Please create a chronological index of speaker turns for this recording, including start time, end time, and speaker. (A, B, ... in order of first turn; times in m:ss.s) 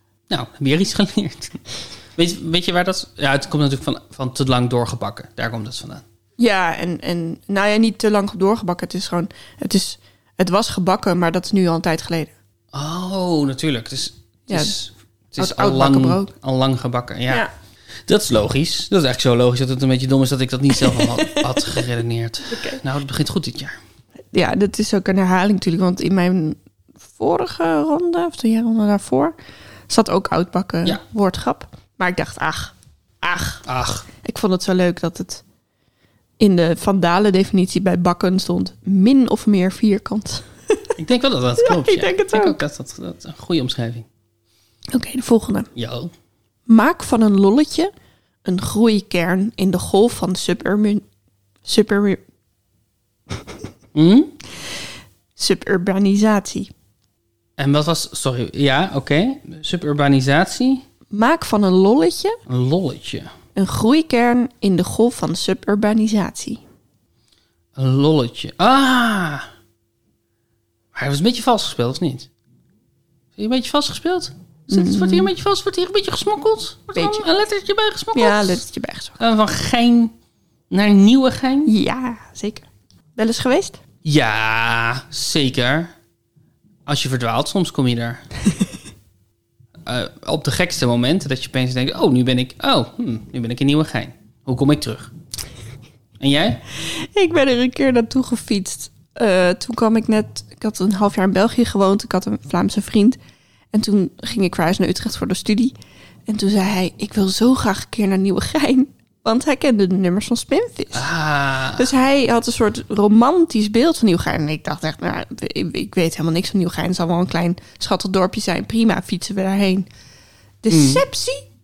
0:00.3-0:06.0 A
0:06.4-0:12.3 B
0:12.7-0:17.4 A
0:14.5-0:14.8 B
0:15.4-0:16.3 B
0:18.1-0:23.8 A
0:20.8-0:21.5 B
0:22.5-0:22.8 B
0:24.3-0:29.4 B
0:29.9-0:35.4 B
0:33.6-0:34.0 A
0:36.4-0:40.9 B
0:41.0-0:44.1 A
0:41.6-0:42.6 B
0:44.9-0:45.7 B
0:45.7-0:46.1 A
0:46.7-0:47.9 B
0:48.4-0:51.0 B
0:51.6-0:52.2 B
0:53.9-0:54.3 A
0:55.4-0:56.7 B
0:57.6-1:00.8 A
1:01.1-1:02.4 B
1:02.5-1:03.3 A
1:03.6-1:06.6 B
1:07.8-1:09.5 A
1:10.9-1:12.3 A
1:13.4-1:18.6 A
1:14.7-1:15.3 B
1:17.0-1:17.2 B
1:18.1-1:19.2 B
1:19.2-1:20.1 A
1:20.7-1:21.7 A
1:21.6-1:23.8 B
1:24.0-1:25.9 A
1:26.8-1:28.3 A
1:29.8-1:35.1 A
1:36.2-1:36.6 A
1:36.8-1:43.2 B
1:43.7-1:45.7 B
1:46.3-1:51.1 B
1:50.9-1:51.9 A
1:51.7-1:59.9 B
2:00.6-2:01.4 B
2:00.7-2:01.0 A